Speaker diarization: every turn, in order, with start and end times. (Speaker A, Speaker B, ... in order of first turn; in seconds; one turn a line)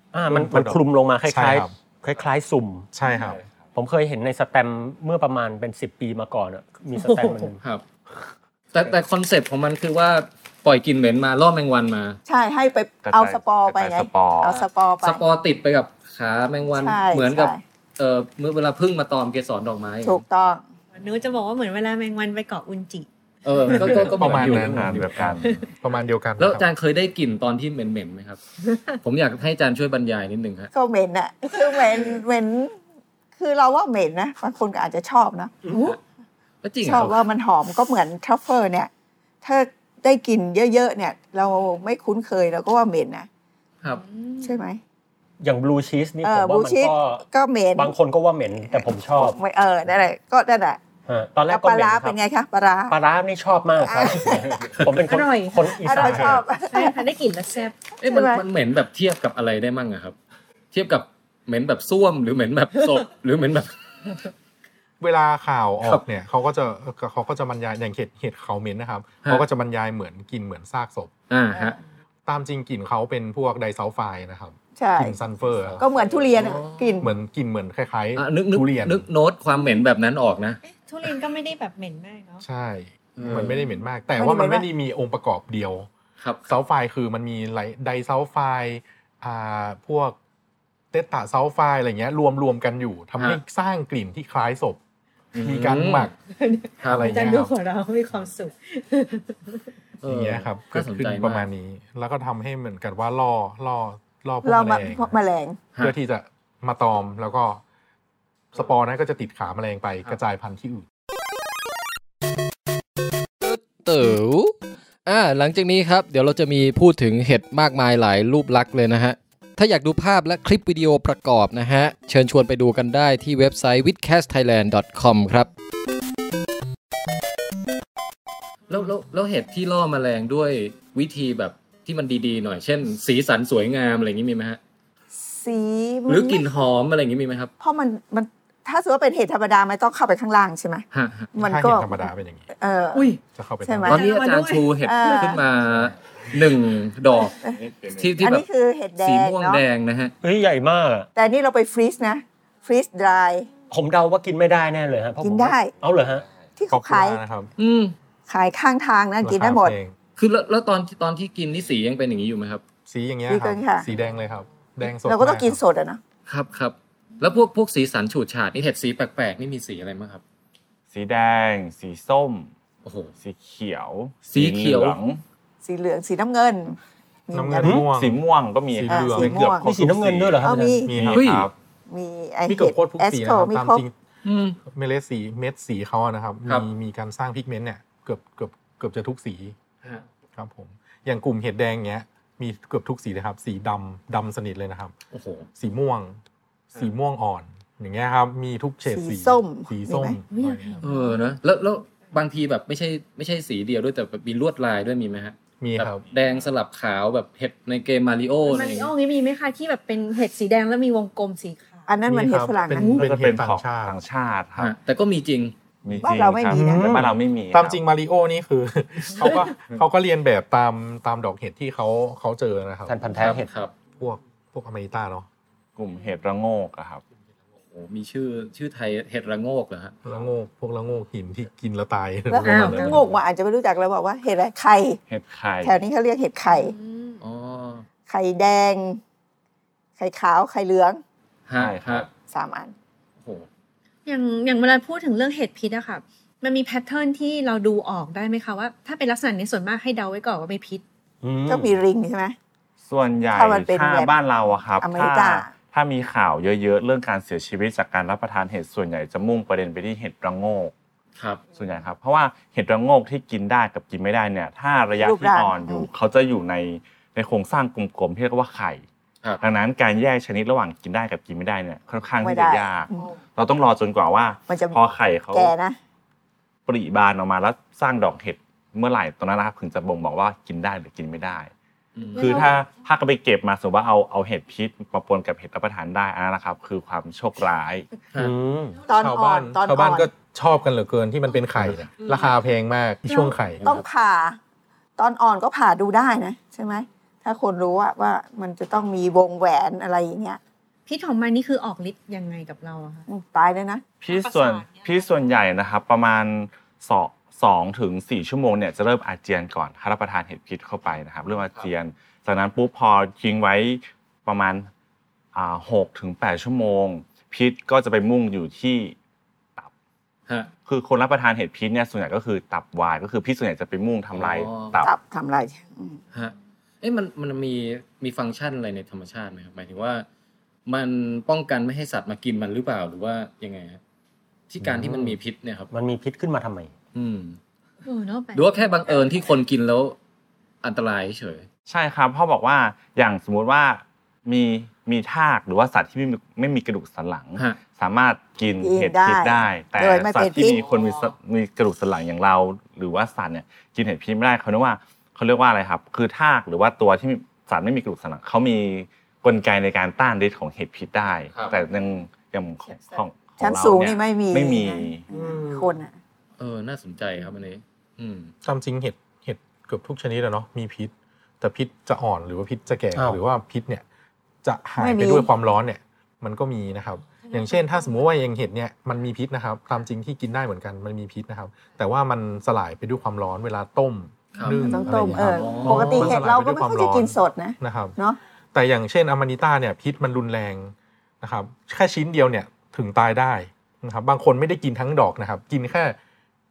Speaker A: 0.1-2.9
Speaker B: 0.3-1.7
Speaker B: 2.9-3.4
Speaker C: 3.3-3.6
Speaker A: 3.7-7.6
Speaker D: 7.0-7.5
Speaker E: 8.7-12.2
Speaker F: 12.2-15.2
Speaker C: 13.0-14.6
Speaker E: 14.6-20.2
Speaker F: 16.7-17.6
Speaker F: 20.0-20.6
Speaker D: 20.9-23.1
Speaker E: 23.4-25.4
Speaker B: 23.8-26.7
Speaker C: 24.1-25.6
Speaker E: 26.4-28.4
Speaker D: 28.7-29.0
Speaker E: 29.0-30.7
Speaker F: 30.7-32.7
Speaker F: 33.4-36.0
Speaker E: 35.7-36.0
Speaker E: 36.6-37.2
Speaker F: 36.8-38.9
Speaker F: 39.4-43.3
Speaker D: 44.0-44.5
Speaker F: 44.4-44.8
Speaker A: 45.4-47.2
Speaker F: 46.2-47.9
Speaker A: 47.8-49.4
Speaker F: 48.7-50.8
Speaker A: 51.1-52.2
Speaker F: 51.5-53.0
Speaker A: 52.9-56.4
Speaker F: 53.8-54.8
Speaker D: 55.1-55.8
Speaker F: 55.8-57.0
Speaker D: 56.7-57.8
Speaker E: 58.0-60.1
Speaker F: 58.0-58.4
Speaker E: 60.7-63.7
Speaker B: 65.0-71.1
Speaker E: 71.3-71.8
Speaker B: 72.3-75.8
Speaker F: 74.8-75.2
Speaker F: 75.8-77.1
Speaker E: 76.0-76.8
Speaker B: 77.0-79.0
Speaker E: 78.2-80.6
Speaker D: 80.6-82.4
Speaker B: 82.4-85.9
Speaker E: 83.2-83.6
Speaker F: 84.2-84.7
Speaker E: 86.2-86.5
Speaker B: 86.5-90.2
Speaker B: 90.9-94.8
Speaker E: 95.3-96.1
Speaker B: 95.3-96.1
Speaker D: 96.3-99.7
Speaker E: 96.8-97.1
Speaker B: 96.9-97.5
Speaker E: 100.0-101.5
Speaker B: 100.0-105.1
Speaker F: 104.4-105.6
Speaker B: 105.8-107.6
Speaker B: 108.5-110.8
Speaker G: 113.4-114.5
Speaker G: 115.0-125.5
Speaker E: 128.7-134.6
Speaker F: 135.2-136.4
Speaker E: 136.1-137.5
Speaker F: 137.6-143.1
Speaker E: 140.9-141.3
Speaker B: 141.4-142.5
Speaker B: 143.3-144.0
Speaker F: 143.6-144.0
Speaker E: 143.9-147.4
Speaker D: 143.9-145.4
Speaker F: 144.8-145.4
Speaker C: 147.6-148.1
Speaker E: 147.9-148.4
Speaker F: 148.2-149.6
Speaker E: 149.0-150.1
Speaker A: 150.2-151.1
Speaker F: 151.1-153.5
Speaker A: 153.7-156.2
Speaker F: 155.2-155.7
Speaker F: 156.6-157.2
Speaker B: 156.7-157.5
Speaker E: 157.6-157.9
Speaker F: 158.3-159.7
Speaker B: 159.2-159.9
Speaker E: 160.2-162.6
Speaker B: 162.9-165.6
Speaker F: 163.3-163.9
Speaker F: 165.0-166.0
Speaker E: 166.3-170.2
Speaker C: 170.9-172.5
Speaker E: 172.8-173.1
Speaker C: 173.2-175.2
Speaker E: 174.3-175.0
Speaker F: 175.6-177.8
Speaker B: 177.3-178.2
Speaker C: 177.9-181.5
Speaker B: 178.7-179.7
Speaker F: 178.9-179.7
Speaker A: 179.6-180.8
Speaker F: 180.4-180.9
Speaker B: 180.8-181.3
Speaker E: 181.1-181.5
Speaker F: 181.9-183.8
Speaker B: 182.5-183.9
Speaker E: 184.2-184.6
Speaker B: 184.6-189.5
Speaker B: 190.3-194.9
Speaker E: 195.1-195.5
Speaker B: 195.6-196.2
Speaker B: 196.7-200.9
Speaker F: 198.9-200.2
Speaker D: 200.3-201.2
Speaker E: 200.8-208.9
Speaker B: 205.6-206.0
Speaker D: 208.5-211.9
Speaker F: 211.9-213.0
Speaker B: 212.1-213.9
Speaker C: 212.9-214.7
Speaker E: 214.6-215.5
Speaker C: 215.8-217.8
Speaker F: 216.0-216.9
Speaker B: 216.5-223.2
Speaker A: 216.6-216.9
Speaker A: 222.9-223.5
Speaker E: 223.2-223.7
Speaker B: 224.0-225.3
Speaker C: 225.8-227.0
Speaker E: 227.7-229.9
Speaker B: 230.0-233.1
Speaker F: 232.3-235.0
Speaker D: 232.4-233.0
Speaker C: 232.5-233.0
Speaker C: 235.1-235.8
Speaker F: 235.6-236.7
Speaker D: 236.4-237.2
Speaker E: 237.2-237.8
Speaker F: 238.1-239.0
Speaker F: 240.0-241.0
Speaker E: 241.5-242.1
Speaker C: 241.6-242.1
Speaker F: 242.3-242.7
Speaker E: 243.2-243.5
Speaker D: 244.1-250.8
Speaker A: 251.2-251.7
Speaker F: 251.5-252.3
Speaker C: 252.8-260.7
Speaker F: 253.3-254.2
Speaker F: 254.8-255.5
Speaker E: 261.2-261.4
Speaker C: 261.6-268.8
Speaker F: 264.9-265.9
Speaker C: 269.4-275.5
Speaker F: 272.2-273.1
Speaker F: 274.5-275.8
Speaker C: 276.6-281.5
Speaker E: 281.9-282.4
Speaker C: 282.1-287.9
Speaker D: 282.2-282.5
Speaker A: 288.1-288.8
Speaker F: 288.9-290.1
Speaker B: 288.9-293.8
Speaker D: 293.1-293.3
Speaker F: 293.6-294.4
Speaker F: 295.0-300.4
Speaker D: 300.9-303.1
Speaker F: 303.1-303.8
Speaker C: 304.0-314.7
Speaker D: 304.1-305.1
Speaker C: 315.3-318.9
Speaker C: 320.6-324.9
Speaker E: 324.1-324.7
Speaker F: 324.8-326.0
Speaker E: 326.1-330.1
Speaker E: 330.7-333.8
Speaker E: 334.5-335.7
Speaker A: 334.6-335.1
Speaker A: 335.7-336.7
Speaker E: 336.9-337.4
Speaker D: 337.8-338.7
Speaker E: 338.3-340.0
Speaker E: 340.6-341.5
Speaker C: 341.7-365.1
Speaker F: 348.6-350.6
Speaker F: 363.4-365.9
Speaker A: 365.1-365.7
Speaker E: 366.4-368.3
Speaker B: 368.4-373.8
Speaker A: 372.9-373.2
Speaker B: 374.4-388.0
Speaker F: 374.8-375.3
Speaker E: 384.3-386.1
Speaker F: 384.5-388.2
Speaker B: 388.5-396.0